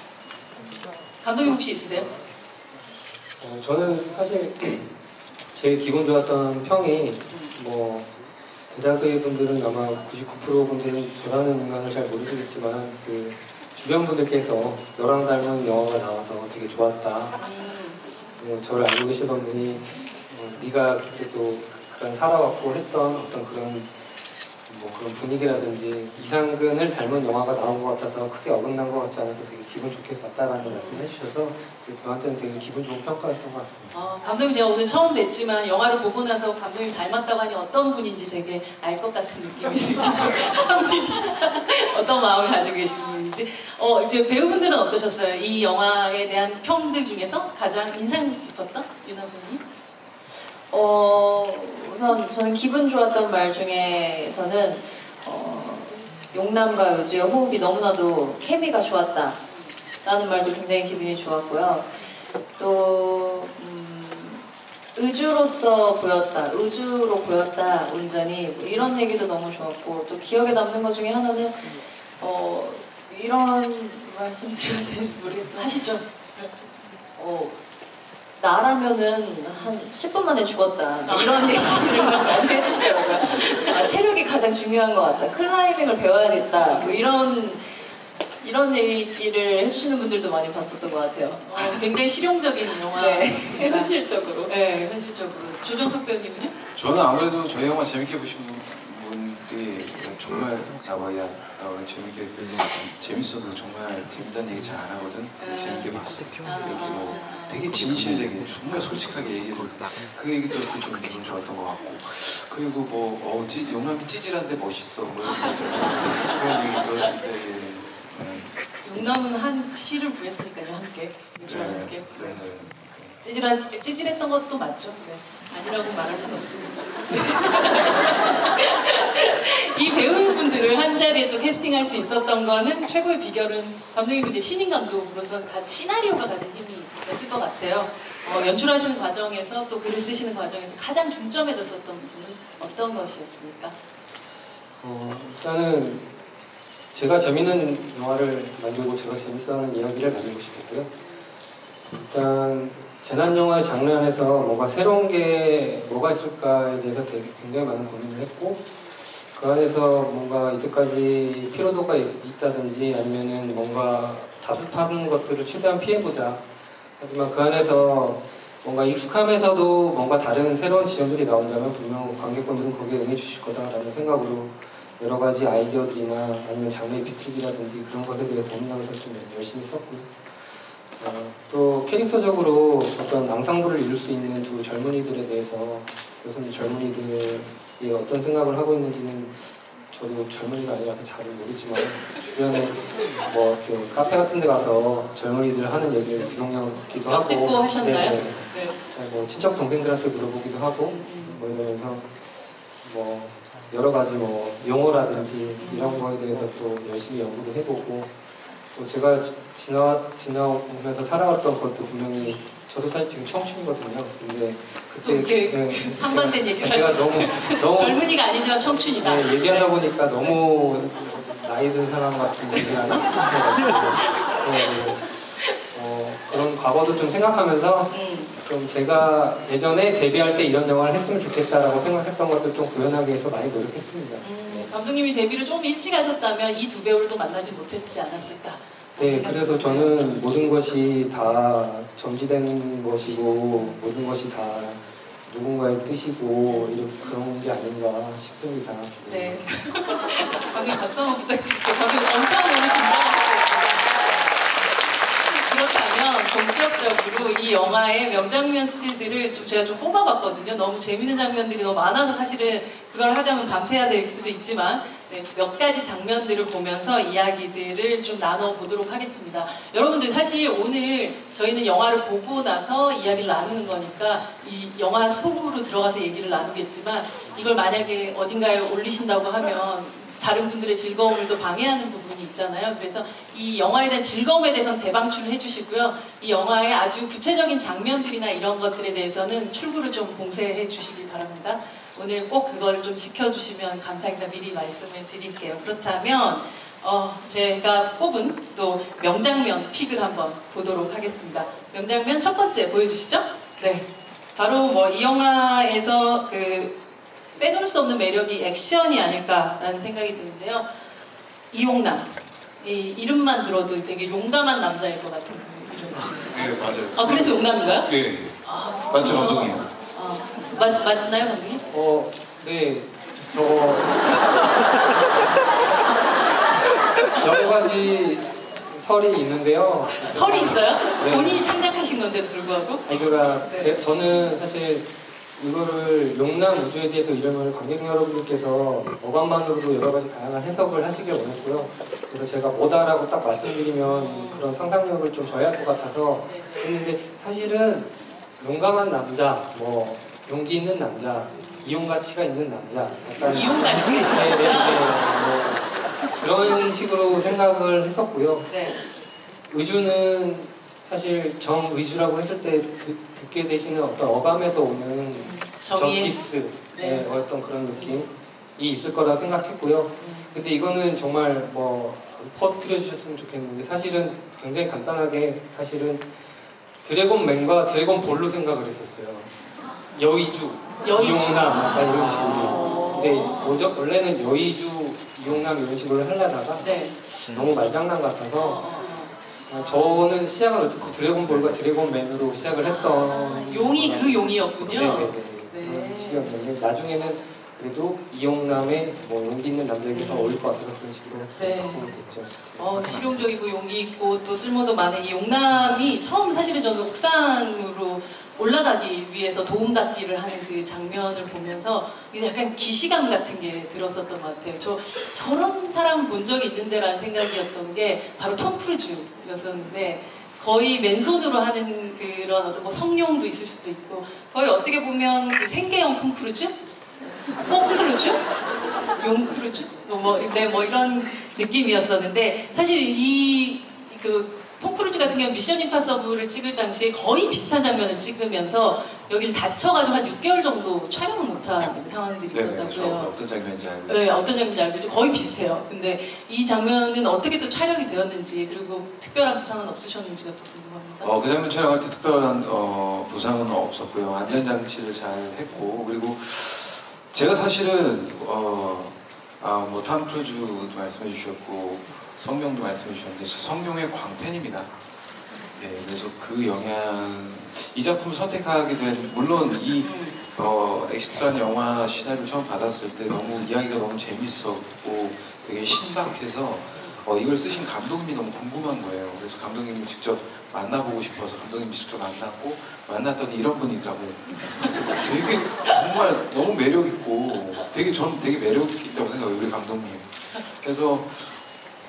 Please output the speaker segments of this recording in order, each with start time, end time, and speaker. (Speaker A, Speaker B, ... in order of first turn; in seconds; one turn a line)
Speaker A: 1.2-2.1
Speaker B: 3.4-4.9
Speaker B: 5.5-8.1
Speaker B: 8.7-17.4
Speaker A: 17.4-18.0
Speaker B: 18.4-23.9
Speaker B: 24.7-33.9
Speaker A: 30.6-31.1
Speaker A: 33.9-49.6
Speaker C: 50.3-59.4
Speaker C: 60.0-75.9
Speaker A: 75.5-76.5
Speaker C: 77.2-77.5
Speaker C: 78.4-87.9
Speaker A: 81.0-83.9
Speaker A: 86.5-87.0
Speaker C: 88.4-91.8
Speaker A: 91.4-93.9
Speaker C: 92.8-94.5
Speaker A: 94.5-96.5
Speaker D: 96.7-119.1
Speaker A: 105.4-105.9
Speaker A: 106.4-107.7
Speaker A: 118.8-143.7
Speaker D: 121.4-123.2
Speaker B: 144.8-146.1
Speaker B: 146.9-150.9
Speaker B: 151.9-158.6
Speaker B: 159.3-166.4
Speaker B: 167.0-180.1
Speaker B: 181.0-202.1
Speaker A: 197.1-198.8
Speaker A: 200.8-201.4
Speaker B: 202.8-208.1
Speaker A: 205.6-206.1
Speaker B: 208.7-218.1
Speaker A: 215.0-219.7
Speaker B: 218.9-234.7
Speaker A: 222.5-223.0
Speaker A: 227.9-228.3
Speaker A: 234.2-240.0
Speaker B: 239.0-249.4
Speaker A: 243.0-243.8
Speaker A: 246.5-246.9
Speaker A: 249.1-254.1
Speaker A: 255.0-306.8
Speaker A: 307.4-310.7
Speaker A: 311.5-317.9
Speaker D: 316.1-319.7
Speaker A: 318.4-321.6
Speaker B: 321.7-324.4
Speaker B: 327.1-331.4
Speaker A: 330.1-333.7
Speaker B: 332.8-358.5
Speaker A: 343.8-344.5
Speaker A: 346.2-346.7
Speaker A: 351.3-351.7
Speaker A: 353.1-355.1
Speaker A: 356.1-356.6
Speaker A: 358.5-358.8
Speaker B: 359.5-376.0
Speaker A: 365.1-366.2
Speaker A: 366.7-367.1
Speaker A: 367.7-368.0
Speaker A: 370.0-370.3
Speaker B: 376.8-379.3
Speaker B: 379.9-388.6
Speaker A: 380.8-383.7
Speaker A: 386.6-387.0
Speaker A: 388.4-389.1
Speaker B: 389.5-403.2
Speaker D: 391.2-391.6
Speaker A: 392.6-396.4
Speaker A: 399.9-400.4
Speaker A: 401.4-401.9
Speaker A: 402.5-428.2
Speaker A: 428.9-443.1
Speaker D: 442.3-444.2
Speaker A: 443.9-451.1
Speaker D: 451.0-464.7
Speaker A: 465.3-465.6
Speaker D: 465.6-491.4
Speaker A: 469.8-470.2
Speaker A: 484.3-485.0